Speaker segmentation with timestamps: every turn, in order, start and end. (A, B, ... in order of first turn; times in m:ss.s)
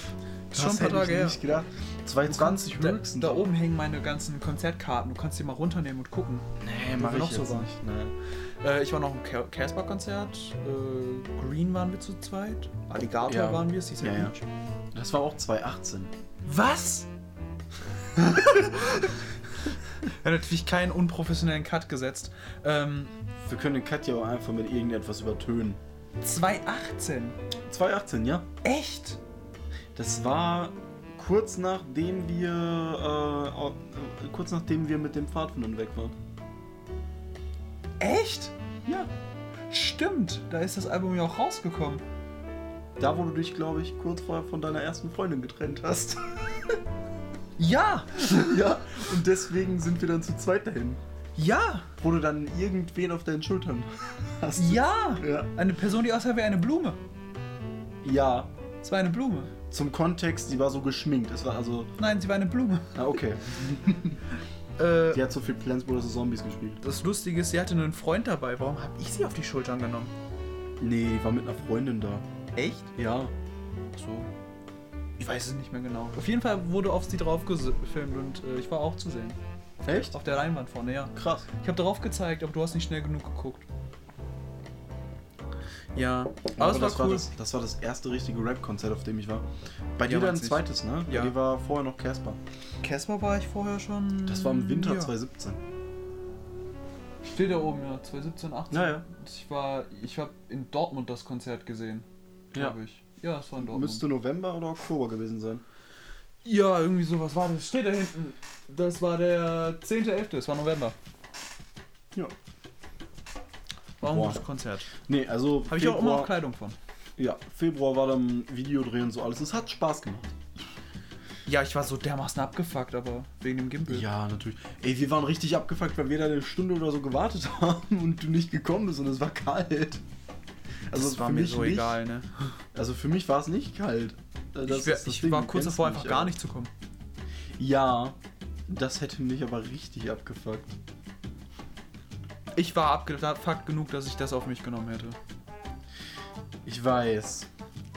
0:00.5-0:01.4 A
0:00.5-0:03.5 B
0:02.3-0:07.7 A
0:06.6-0:08.2 B
0:08.6-0:14.4 A
0:13.2-0:14.4 B
0:14.9-0:16.1 B
0:16.4-0:17.1 A
0:18.2-0:19.2 A
0:20.0-0:23.1 A
0:23.4-0:25.8 B
0:26.2-0:27.4 A
0:27.7-0:28.5 B
0:28.6-0:29.2 A
0:30.0-0:36.2 B
0:38.0-0:38.5 A
0:39.7-0:42.0 A
0:43.0-0:46.8 B
0:47.6-0:48.6 A
0:48.2-0:51.0 B
0:51.4-0:51.9 A
0:52.0-0:55.5 B
0:54.6-0:57.0 A
0:58.0-0:58.5 B
0:58.8-0:59.5 A
0:59.7-1:01.9 B
1:02.0-1:03.0 A
1:03.0-1:04.2 B
1:04.8-1:05.2 A
1:05.1-1:06.8 B
1:06.8-1:10.1 A
1:10.8-1:12.2 B
1:12.6-1:12.9 A
1:13.0-1:13.3 B
1:14.0-1:14.3 A
1:15.2-1:23.7 A
1:19.8-1:20.2 B
1:21.2-1:21.5 B
1:26.0-1:27.3 A
1:26.5-1:29.5 B
1:30.0-1:32.4 B
1:30.0-1:31.3 A
1:32.8-1:35.1 A
1:34.3-1:35.6 B
1:37.2-1:44.0 A
1:38.7-1:39.0 B
1:43.6-1:45.6 B
1:46.4-1:51.0 A
1:54.0-1:54.9 A
1:54.1-1:54.4 B
1:55.0-1:56.3 B
1:55.7-1:56.8 A
1:57.2-2:00.4 B
2:01.5-2:04.1 A
2:03.9-2:10.0 B
2:10.9-2:12.0 B
2:10.9-2:12.5 A
2:12.7-2:16.4 B
2:14.7-2:16.7 A
2:17.6-2:18.2 B
2:18.7-2:20.8 B
2:22.6-2:25.2 A
2:26.6-2:27.5 B